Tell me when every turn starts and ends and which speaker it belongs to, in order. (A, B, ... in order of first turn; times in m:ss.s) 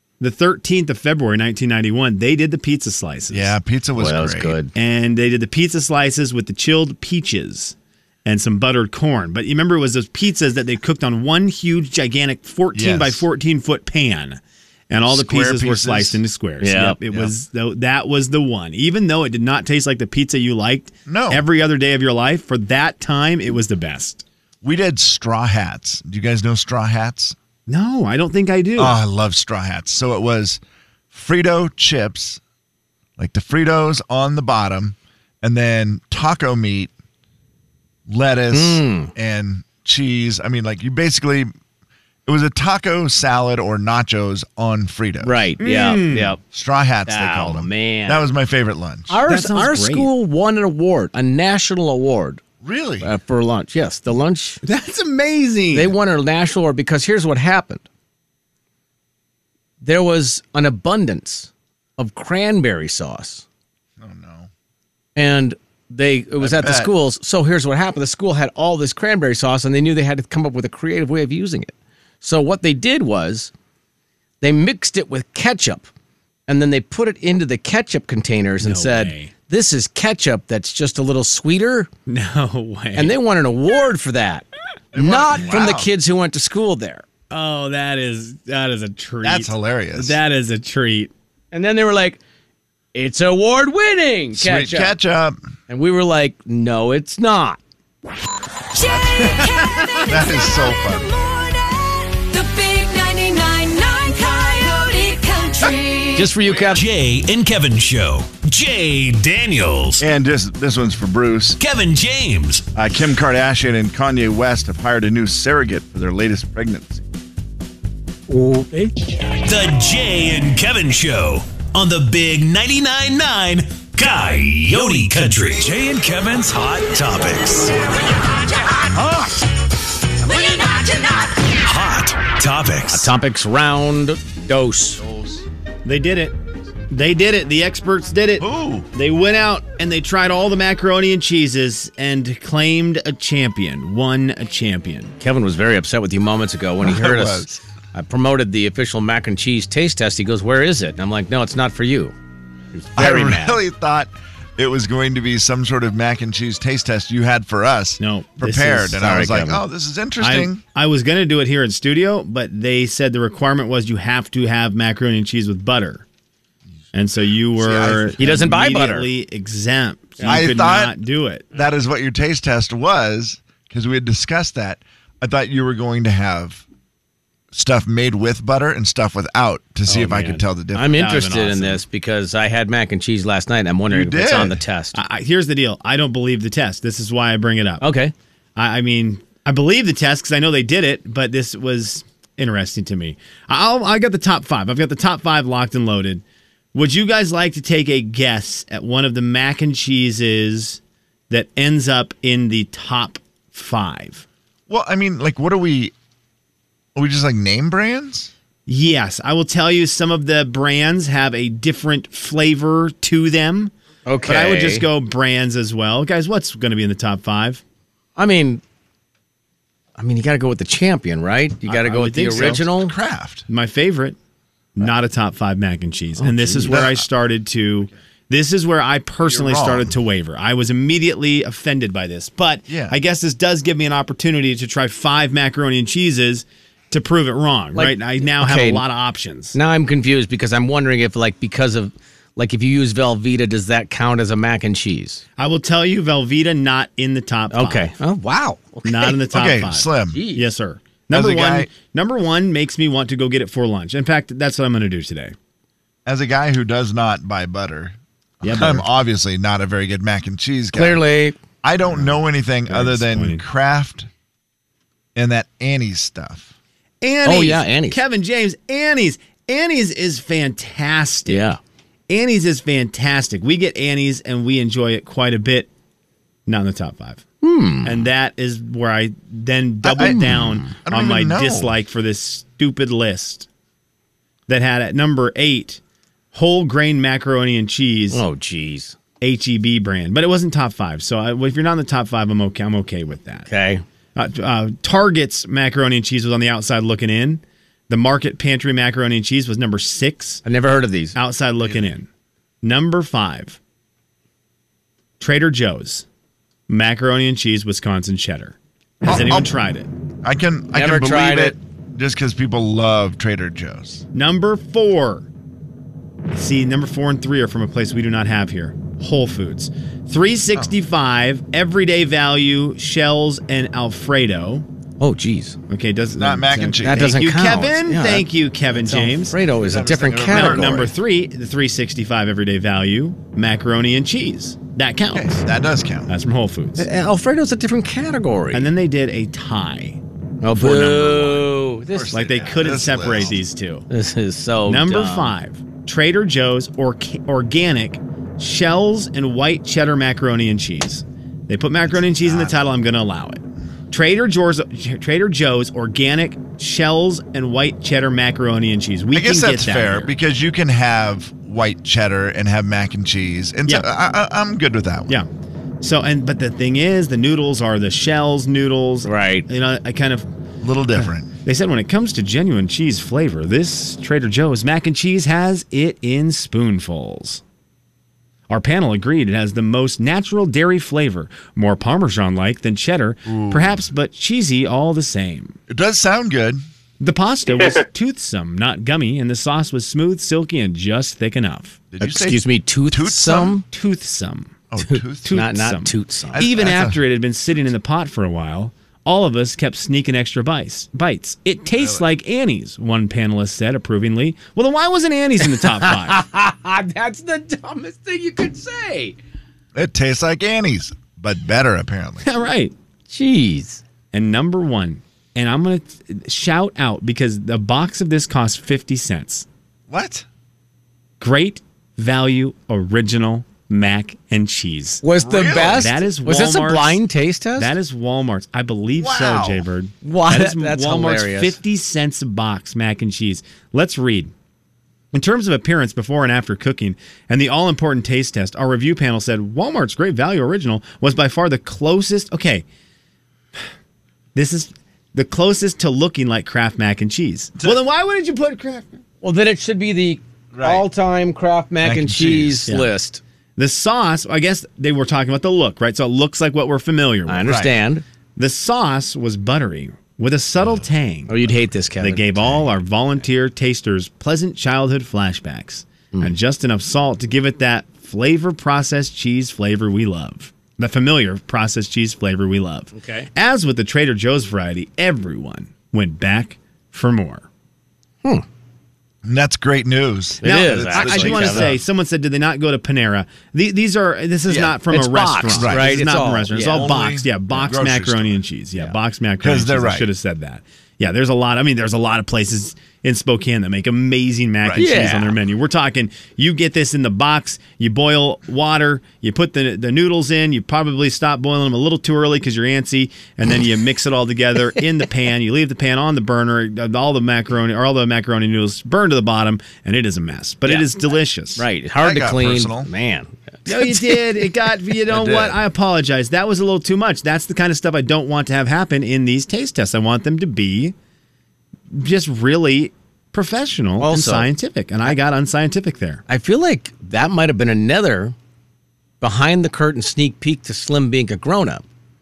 0:00.2-0:03.6 A
0:03.3-0:04.6 B
0:04.0-0:04.7 C
0:04.8-0:24.2 A
0:12.7-0:13.2 B
0:15.1-0:16.2 B
0:16.6-0:17.0 C
0:17.1-0:17.3 B
0:21.1-0:21.4 B
0:24.6-0:27.4 B
0:27.7-0:29.0 A
0:28.8-0:32.4 B
0:33.2-0:36.9 B
0:38.1-0:41.5 B
0:38.5-0:39.1 C
0:42.3-0:45.5 B
0:45.2-0:46.4 C
0:45.6-0:46.4 A
0:46.5-0:49.2 B
0:47.1-0:48.2 C
0:49.1-0:52.4 C
0:49.2-0:50.1 A
0:52.6-0:53.1 B
0:53.0-0:54.6 C
0:54.6-0:55.9 A
0:55.7-0:57.8 C
0:59.8-1:03.4 C
1:04.0-1:04.5 B
1:05.2-1:13.5 C
1:06.4-1:06.9 B
1:14.4-1:15.9 C
1:16.5-1:21.9 C
1:18.6-1:19.3 A
1:22.1-1:23.2 A
1:23.0-1:27.0 C
1:24.9-1:25.9 B
1:27.3-1:31.1 A
1:29.2-1:30.2 B
1:31.5-1:32.2 C
1:32.9-1:35.0 C
1:34.3-1:35.4 B
1:35.7-1:37.6 C
1:38.7-1:46.3 D
1:38.8-1:41.1 B
1:46.2-1:46.8 C
1:46.7-1:50.0 E
1:50.0-1:51.6 B
1:51.6-1:52.7 E
1:52.7-1:57.0 B
1:58.5-2:07.9 E
2:08.8-2:09.4 E
2:10.2-2:11.4 D
2:11.4-2:13.1 E
2:12.8-2:15.0 C
2:15.0-2:15.5 B
2:15.8-2:16.4 A
2:16.9-2:25.1 A
2:18.4-2:18.9 B
2:25.2-2:32.1 C
2:26.8-2:27.6 B
2:32.7-2:33.6 C
2:33.0-2:40.6 B
2:38.0-2:39.0 A
2:39.0-2:39.6 C
2:40.2-2:46.0 A
2:46.9-2:51.5 A
2:47.6-2:48.4 B
2:48.2-2:49.1 C
2:50.2-2:50.5 C
2:50.2-2:51.0 B
2:51.5-2:56.6 B
2:57.5-3:01.0 B
2:59.9-3:05.0 C
3:00.9-3:01.8 A
3:03.9-3:04.6 B
3:04.9-3:07.8 A
3:07.8-3:08.1 C
3:08.6-3:16.2 A
3:16.7-3:24.2 A
3:24.7-3:25.9 B
3:27.0-3:28.3 B
3:28.7-3:33.7 A
3:34.1-3:34.9 C
3:34.2-3:37.6 A
3:38.2-3:38.6 C
3:40.0-3:42.9 C
3:41.7-3:42.6 A
3:42.4-3:43.4 B
3:43.5-3:44.2 A
3:44.8-3:59.6 A
3:46.2-3:46.8 C
3:46.7-3:47.0 B
3:49.3-3:49.9 B
3:52.7-3:53.0 B
3:57.8-3:58.8 C
3:59.5-4:05.2 C
4:05.4-4:07.9 A
4:07.5-4:09.2 C
4:08.8-4:15.4 A
4:09.3-4:10.2 B
4:10.1-4:10.5 C
4:11.1-4:11.7 B
4:16.1-4:21.0 B
4:18.4-4:18.9 A
4:20.7-4:21.4 C
4:21.6-4:24.1 B
4:21.9-4:23.4 A
4:25.2-4:26.5 B
4:27.0-4:31.5 A
4:27.2-4:28.0 C
4:31.3-4:31.6 C
4:32.1-4:35.7 A
4:36.5-4:37.2 A
4:37.4-4:38.1 C
4:37.8-4:43.5 A
4:39.8-4:41.8 B
4:40.0-4:40.7 C
4:44.5-4:45.8 A
4:46.3-4:48.2 A
4:48.1-4:49.0 C
4:49.2-4:53.5 A
4:53.5-4:53.8 C
4:54.2-5:00.4 A
5:00.4-5:01.2 C
5:01.2-5:02.1 A
5:01.6-5:01.9 B
5:02.6-5:03.6 A
5:05.2-5:06.0 A
5:06.7-5:09.9 A
5:09.0-5:09.5 B
5:10.2-5:14.0 B
5:10.7-5:11.6 C
5:14.1-5:15.3 A
5:16.3-5:24.6 A
5:25.0-5:25.6 C
5:25.7-5:29.4 A
5:26.2-5:27.2 B
5:26.8-5:30.8 C
5:29.6-5:30.9 B
5:30.3-5:35.4 A
5:35.1-5:36.1 B
5:36.1-5:36.9 A
5:36.8-5:38.7 C
5:38.5-5:40.0 A
5:40.4-5:42.2 C
5:40.5-5:41.5 A
5:41.9-5:43.4 B
5:42.1-5:43.8 A
5:43.9-5:45.3 C
5:44.7-6:00.1 A
5:52.0-5:52.5 B
5:59.1-6:05.2 B
6:05.8-6:10.3 A
6:09.0-6:09.5 C
6:10.6-6:11.3 B
6:11.0-6:17.4 A
6:18.5-6:25.6 A
6:23.3-6:23.8 B
6:25.7-6:26.6 B
6:27.0-6:31.8 A
6:31.9-6:33.6 B
6:32.0-6:33.6 C
6:33.7-6:34.5 A
6:34.7-6:35.4 B
6:34.9-6:36.4 C
6:35.2-6:46.2 A
6:36.3-6:37.0 B
6:41.8-6:42.1 B
6:45.6-6:49.2 C
6:49.8-6:52.3 B
6:52.2-6:52.7 A
6:53.1-6:53.8 C
6:54.1-6:59.5 A
6:59.9-7:00.3 B
7:01.2-7:05.0 A
7:05.0-7:07.7 C
7:05.2-7:06.0 B
7:05.7-7:07.0 A
7:07.6-7:14.3 A
7:09.0-7:09.7 B
7:10.0-7:11.6 C
7:15.1-7:22.6 A
7:24.4-7:29.0 A
7:29.2-7:33.2 C
7:30.5-7:30.8 B
7:31.8-7:32.6 B
7:32.7-7:32.9 A
7:33.6-7:37.6 A
7:37.3-7:38.0 C
7:37.4-7:37.7 B
7:38.4-7:41.4 A
7:41.3-7:42.6 C
7:42.0-7:57.5 A
7:53.0-7:53.3 C
7:59.2-8:01.8 B
8:00.4-8:01.7 C
8:00.4-8:31.6 A
8:04.5-8:04.8 B
8:04.9-8:07.0 C
8:05.5-8:06.0 B
8:06.6-8:08.4 B
8:09.4-8:10.1 B
8:14.6-8:14.9 B
8:14.8-8:15.4 C
8:31.6-8:34.2 C
8:32.0-8:32.9 B
8:33.7-8:41.0 A
8:35.1-8:35.6 B
8:41.9-8:46.2 A
8:44.0-8:44.5 C
8:46.3-8:48.3 C
8:49.2-8:51.8 C